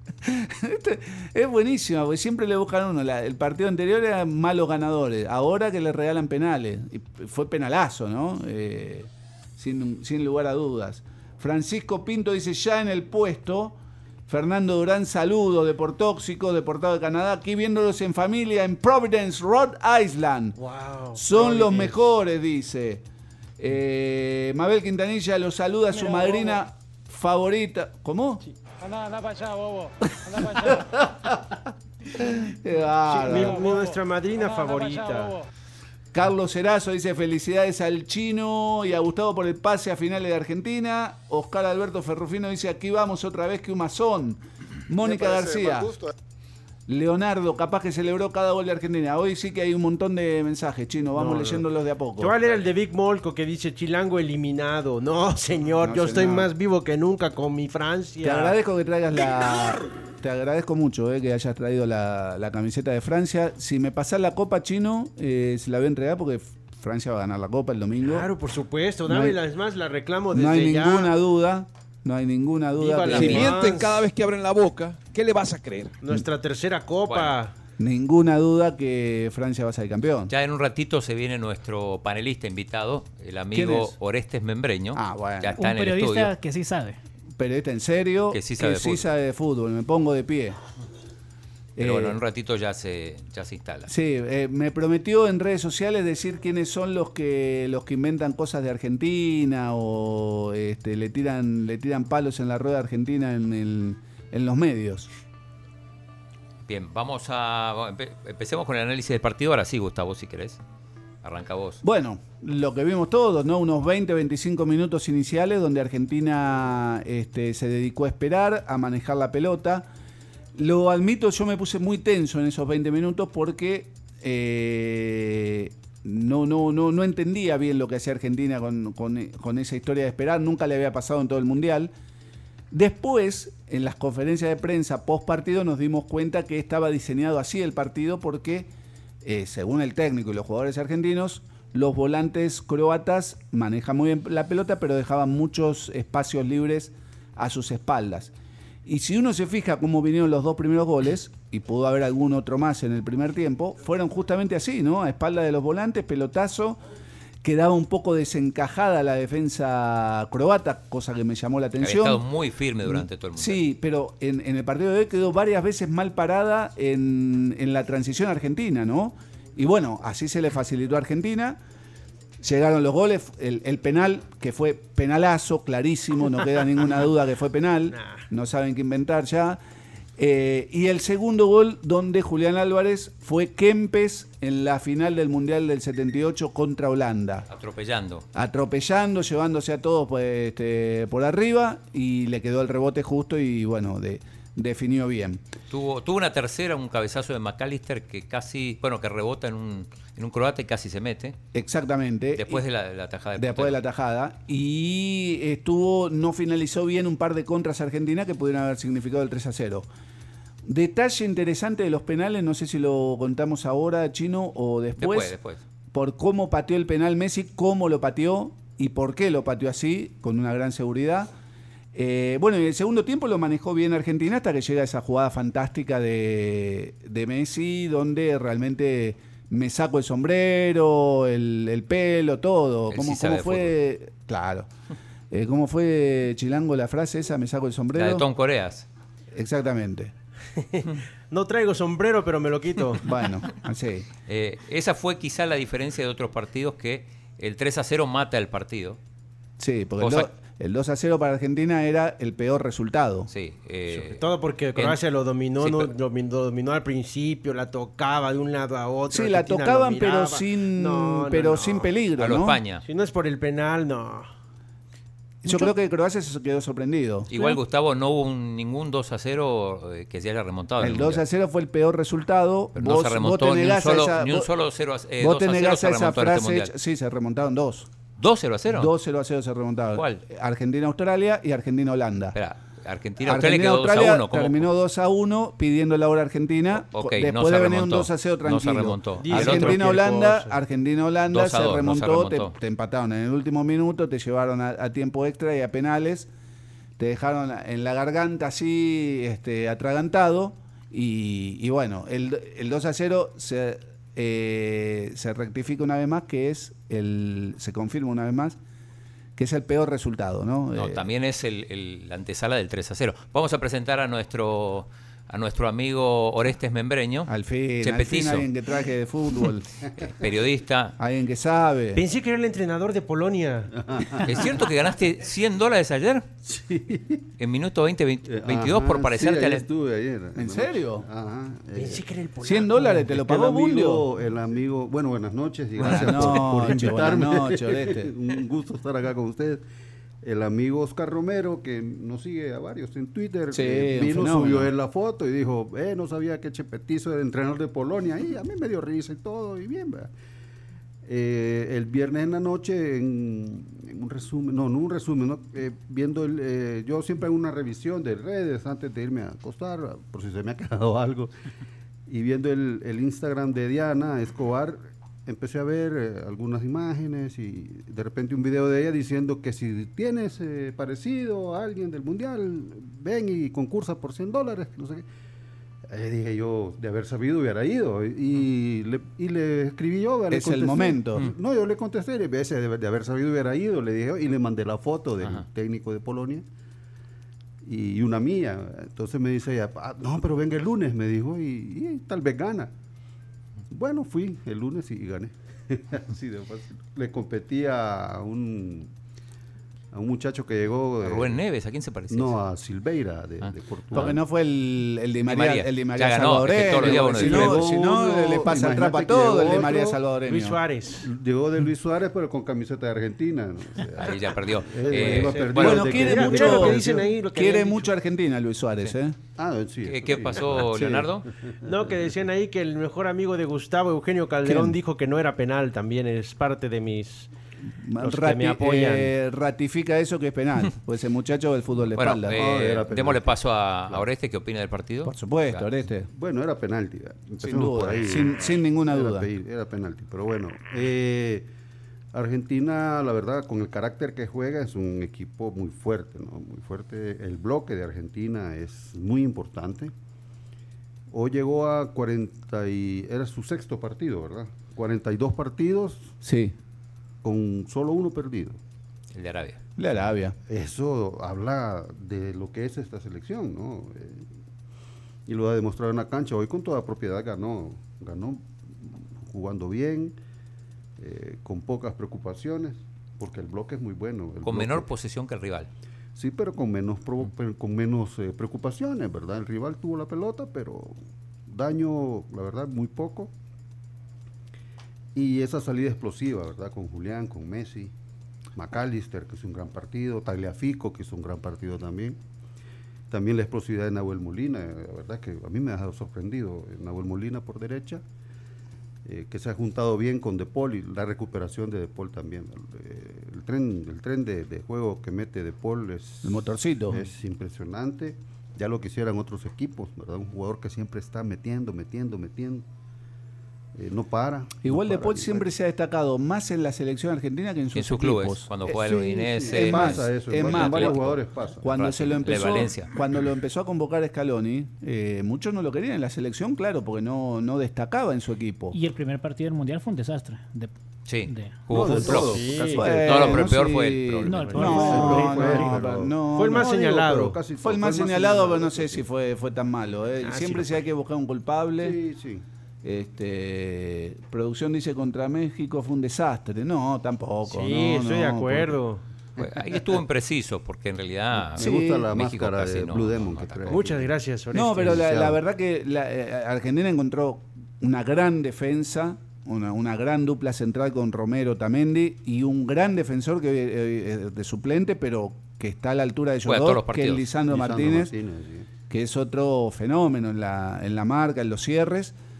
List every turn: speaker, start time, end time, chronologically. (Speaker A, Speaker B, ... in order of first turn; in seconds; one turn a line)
Speaker A: 0.2-13.8
Speaker A: 14.3-20.6
Speaker B: 20.6-22.0
Speaker A: 21.1-23.0
Speaker A: 23.6-28.4
Speaker C: 26.0-26.6
Speaker C: 28.8-30.8
Speaker A: 30.3-31.6
Speaker A: 32.1-33.6
Speaker B: 33.1-35.4
Speaker C: 33.3-35.4
Speaker A: 36.1-46.0
Speaker A: 46.9-52.4
Speaker B: 51.1-51.6
Speaker B: 52.2-58.5
Speaker A: 55.8-56.5
Speaker A: 58.2-68.3
Speaker B: 68.0-71.1
Speaker A: 69.1-69.4
Speaker A: 70.3-73.8
Speaker B: 72.8-73.9
Speaker D: 73.3-75.9
Speaker B: 76.0-77.5
Speaker E: 77.1-77.3
Speaker A: 77.8-80.3
Speaker E: 80.3-86.3
Speaker A: 83.5-83.9
Speaker A: 84.9-85.5
Speaker F: 85.6-87.0
Speaker A: 87.4-90.6
Speaker E: 88.3-89.0
Speaker A: 91.8-92.2
Speaker E: 91.8-93.9
Speaker A: 93.9-105.1
Speaker E: 106.7-110.6
Speaker E: 111.2-111.8
Speaker A: 111.8-119.9
Speaker A: 120.5-131.9
Speaker A: 132.7-138.7
Speaker A: 139.2-148.3
Speaker A: 148.8-156.8
Speaker A: 157.4-162.2
Speaker E: 161.8-163.6
Speaker A: 162.8-171.6
Speaker A: 172.4-179.6
Speaker B: 177.9-178.2
Speaker A: 180.2-187.5
Speaker E: 187.5-188.2
Speaker A: 188.3-195.4
Speaker E: 195.7-201.4
Speaker A: 201.5-202.6
Speaker E: 202.3-203.8
Speaker A: 203.4-209.9
Speaker A: 210.7-215.3
Speaker E: 215.0-215.6
Speaker A: 215.9-221.3
Speaker A: 221.9-234.7
Speaker E: 232.9-233.7
Speaker A: 235.3-238.2
Speaker E: 237.9-238.8
Speaker A: 239.3-240.1
Speaker B: 240.6-243.0
Speaker A: 243.0-244.1
Speaker E: 244.3-249.0
Speaker A: 249.6-253.3
Speaker E: 250.0-250.3
Speaker E: 253.3-255.0
Speaker B: 254.1-261.9
Speaker E: 255.6-255.9
Speaker A: 259.1-262.6
Speaker E: 262.2-262.8
Speaker B: 262.8-264.3
Speaker A: 265.4-267.5
Speaker E: 267.3-271.2
Speaker A: 270.8-274.5
Speaker E: 272.7-276.7
Speaker A: 275.2-277.9
Speaker E: 278.2-278.9
Speaker A: 278.7-282.4
Speaker E: 279.9-280.2
Speaker E: 282.3-284.7
Speaker A: 283.2-296.3
Speaker E: 286.9-289.9
Speaker B: 289.2-290.5
Speaker E: 291.3-292.5
Speaker A: 297.0-308.6
Speaker A: 309.4-311.0
Speaker E: 310.7-317.3
Speaker A: 317.3-319.7
Speaker E: 317.8-318.5
Speaker E: 320.0-320.9
Speaker A: 321.0-322.0
Speaker B: 321.9-323.7
Speaker G: 323.7-324.6
Speaker E: 324.2-326.2
Speaker G: 326.4-327.2
Speaker E: 327.4-329.6
Speaker G: 328.3-332.1
Speaker A: 330.4-331.1
Speaker B: 331.7-333.2
Speaker A: 332.4-334.1
Speaker G: 333.2-339.6
Speaker A: 335.8-338.1
Speaker G: 340.2-350.1
Speaker A: 343.5-344.7
Speaker G: 351.0-361.3
Speaker G: 362.1-375.0
Speaker G: 375.9-386.4
Speaker A: 380.3-381.2
Speaker G: 387.6-392.7
Speaker G: 393.7-398.9
Speaker G: 399.9-401.4
Speaker E: 401.0-402.4
Speaker G: 402.1-404.2
Speaker E: 403.4-404.0
Speaker A: 403.9-410.6
Speaker E: 405.3-407.6
Speaker G: 406.8-410.0
Speaker B: 410.2-411.1
Speaker G: 411.0-417.0
Speaker E: 413.9-415.9
Speaker B: 415.1-417.9
Speaker A: 415.5-419.1
Speaker G: 419.4-421.9
Speaker E: 419.8-421.2
Speaker B: 421.6-427.3
Speaker A: 424.4-424.8
Speaker A: 427.7-432.4
Speaker B: 428.0-429.1
Speaker E: 431.9-435.6
Speaker G: 432.3-433.4
Speaker A: 435.0-436.1
Speaker G: 436.1-441.5
Speaker A: 437.4-439.3
Speaker G: 442.1-449.9
Speaker G: 451.1-456.1
Speaker A: 456.2-456.5
Speaker G: 457.2-458.6
Speaker E: 459.1-459.6
Speaker A: 459.8-460.3
Speaker G: 460.5-464.3
Speaker G: 465.2-470.1
Speaker G: 471.0-474.9
Speaker E: 474.4-475.7
Speaker G: 476.1-480.9
Speaker G: 481.5-483.3
Speaker G: 485.1-487.9
Speaker G: 488.6-492.2
Speaker G: 493.1-498.0
Speaker G: 499.0-512.6
Speaker A: 506.2-507.0
Speaker G: 513.7-515.5
Speaker A: 514.6-528.8
Speaker E: 517.7-522.9
Speaker G: 518.8-521.7
Speaker F: 528.7-530.7
Speaker E: 531.0-534.8
Speaker F: 531.2-531.6
Speaker G: 531.7-533.5
Speaker B: 532.2-532.8
Speaker A: 532.7-536.8
Speaker F: 534.2-535.8
Speaker G: 534.6-539.1
Speaker B: 535.0-535.5
Speaker B: 536.3-537.4
Speaker A: 537.6-542.0
Speaker B: 540.2-540.8
Speaker G: 541.8-542.4
Speaker A: 542.8-548.8
Speaker B: 547.5-549.0
Speaker E: 549.4-553.8
Speaker A: 551.5-552.0
Speaker G: 551.5-554.1
Speaker B: 553.7-555.1
Speaker A: 554.5-568.1
Speaker G: 554.8-555.4
Speaker E: 566.4-567.2
Speaker G: 567.5-568.7
Speaker A: 568.9-572.1